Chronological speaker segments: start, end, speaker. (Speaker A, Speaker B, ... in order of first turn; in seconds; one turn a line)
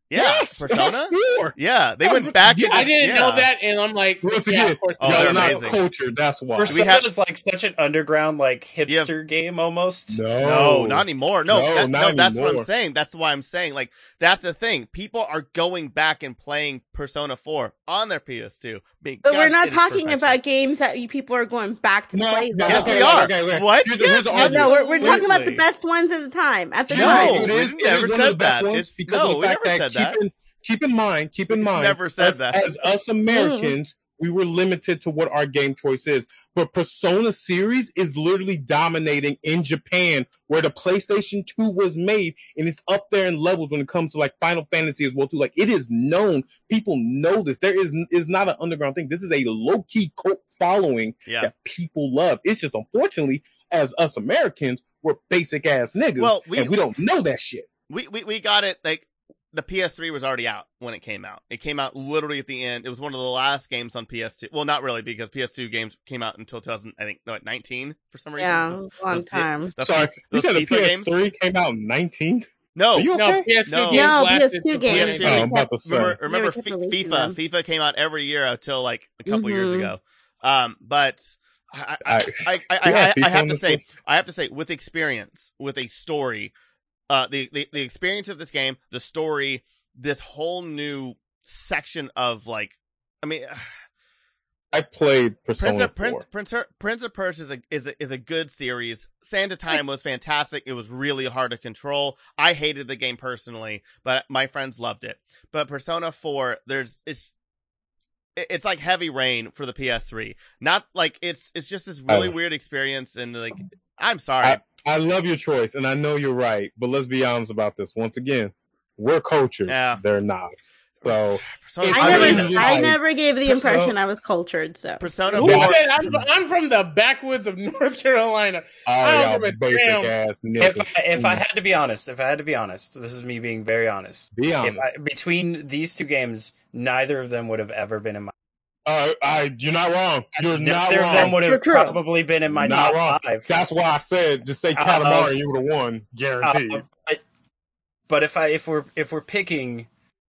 Speaker A: 0.1-3.5
Speaker B: 0.1-3.2
Speaker C: 2.7-5.6
Speaker B: 4.2-6.8
Speaker A: 5.0-5.8
Speaker D: 5.1-5.6
Speaker D: 6.5-10.2
Speaker A: 6.7-7.1
Speaker A: 8.8-9.1
Speaker B: 10.1-12.7
Speaker A: 10.4-20.4
Speaker E: 19.2-23.3
Speaker B: 22.1-25.2
Speaker A: 22.7-25.6
Speaker E: 24.0-27.5
Speaker B: 26.9-57.7
Speaker A: 26.9-30.2
Speaker A: 31.5-32.6
Speaker E: 33.3-33.8
Speaker A: 56.2-56.8
Speaker A: 57.9-71.1
Speaker E: 68.4-69.7
Speaker B: 69.8-73.5
Speaker A: 72.8-73.1
Speaker C: 73.1-75.4
Speaker A: 73.7-74.1
Speaker E: 73.9-77.4
Speaker A: 74.9-86.5
Speaker B: 75.2-76.2
Speaker E: 79.3-79.9
Speaker B: 82.0-83.9
Speaker A: 87.1-93.7
Speaker B: 94.7-96.2
Speaker A: 95.6-107.3
Speaker A: 108.3-114.6
Speaker B: 112.1-112.3
Speaker B: 114.4-123.0
Speaker A: 119.7-120.0
Speaker A: 121.0-122.6
Speaker E: 121.9-125.0
Speaker D: 122.0-122.5
Speaker D: 123.5-124.0
Speaker A: 125.0-125.9
Speaker C: 125.3-130.1
Speaker B: 125.4-126.2
Speaker B: 128.8-131.4
Speaker D: 130.6-138.3
Speaker B: 134.3-134.9
Speaker B: 138.8-141.4
Speaker D: 140.4-143.6
Speaker E: 141.1-142.0
Speaker B: 142.5-146.8
Speaker D: 144.8-145.3
Speaker D: 146.4-147.2
Speaker D: 148.1-149.9